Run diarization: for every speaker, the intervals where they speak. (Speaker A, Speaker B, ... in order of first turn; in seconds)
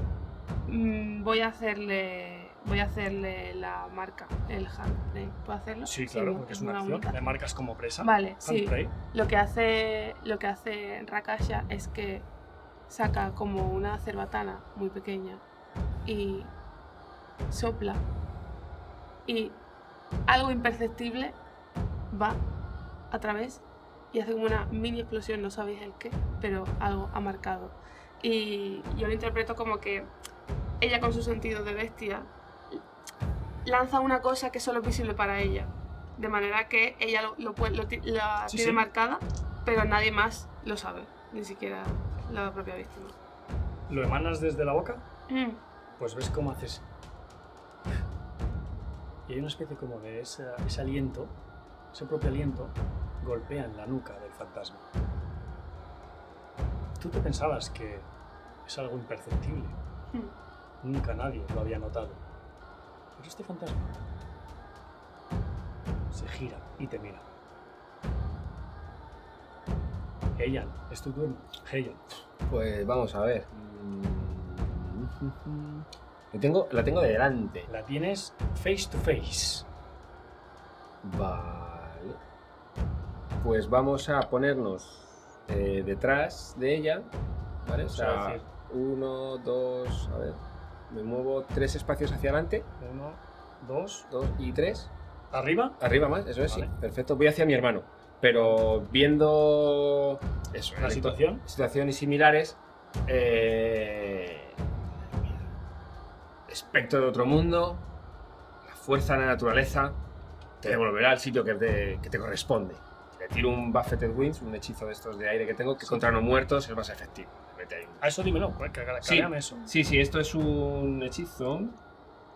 Speaker A: 0.7-7.3, 8.0-12.3, 12.9-15.4, 16.0-16.5, 17.5-18.0, 19.2-19.6, 20.3-21.4, 22.1-22.4, 23.1-30.1, 30.8-32.8, 33.6-43.1, 45.3-45.6
Speaker B: 5.8-8.9, 38.5-38.8, 43.9-45.0, 46.0-46.8, 49.3-51.4, 51.9-54.8, 57.0-58.1, 58.6-59.8, 60.8-62.2, 63.2-64.0, 66.1-67.2, 70.4-72.0, 77.7-79.7, 87.9-88.5, 92.8-94.1, 95.3-95.8, 96.5-96.7, 100.8-101.4, 115.8-116.1, 118.0-119.6
Speaker C: 72.5-77.7, 81.0-82.2, 83.4-87.1, 87.6-92.7, 94.1-94.9, 95.8-104.5, 106.5-107.8, 108.6-110.0, 110.6-118.1, 119.0-121.8